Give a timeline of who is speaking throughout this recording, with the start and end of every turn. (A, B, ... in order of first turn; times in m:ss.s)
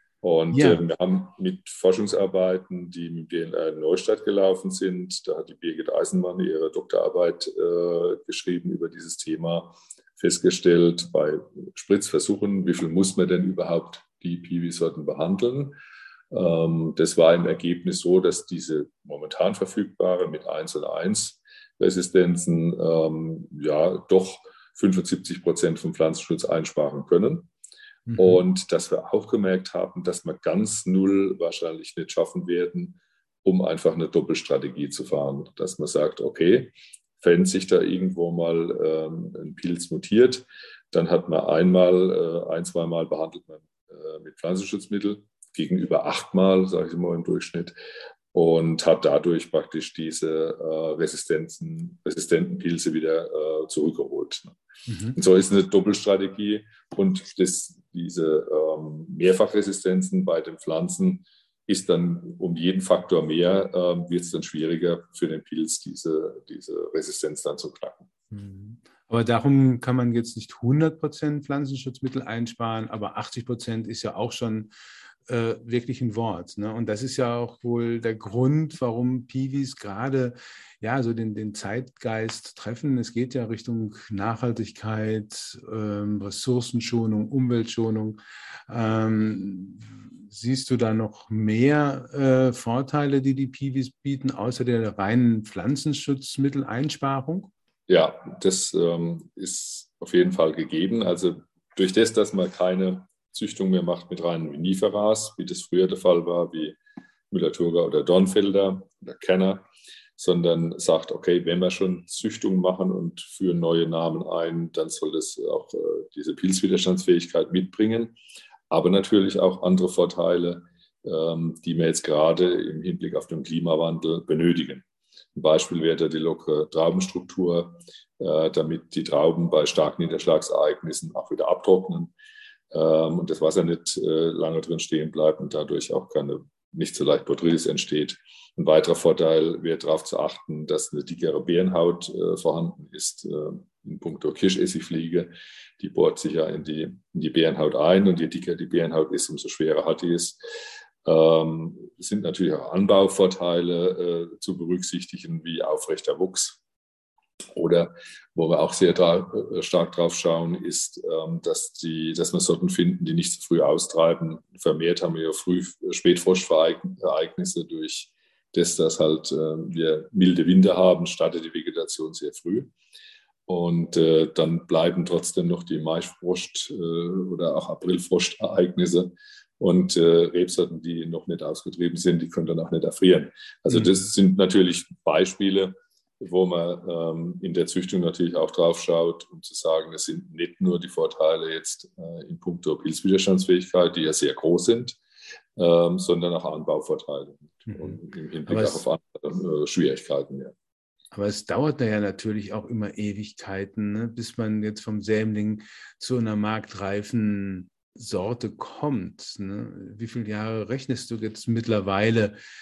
0:00.2-0:15.7 A
0:00.5-0:00.8 B
0:16.3-0:27.5 A
0:28.1-0:28.4 B
0:28.2-0:47.7 A
0:48.3-0:54.6 A
0:54.9-0:55.2 B
0:55.1-1:08.1 A
1:08.3-1:14.7 B
1:15.3-1:28.2 B
1:28.7-1:37.5 B
1:37.9-1:46.8 A
1:47.3-1:58.1 A
1:58.7-2:12.1 A
2:12.7-2:30.4 A
2:31.0-2:36.6 A
2:37.5-2:52.7 A
2:53.5-3:15.0 A
3:15.6-3:20.5 A
3:17.7-3:18.0 B
3:18.5-3:18.8 B
3:21.1-3:32.4 B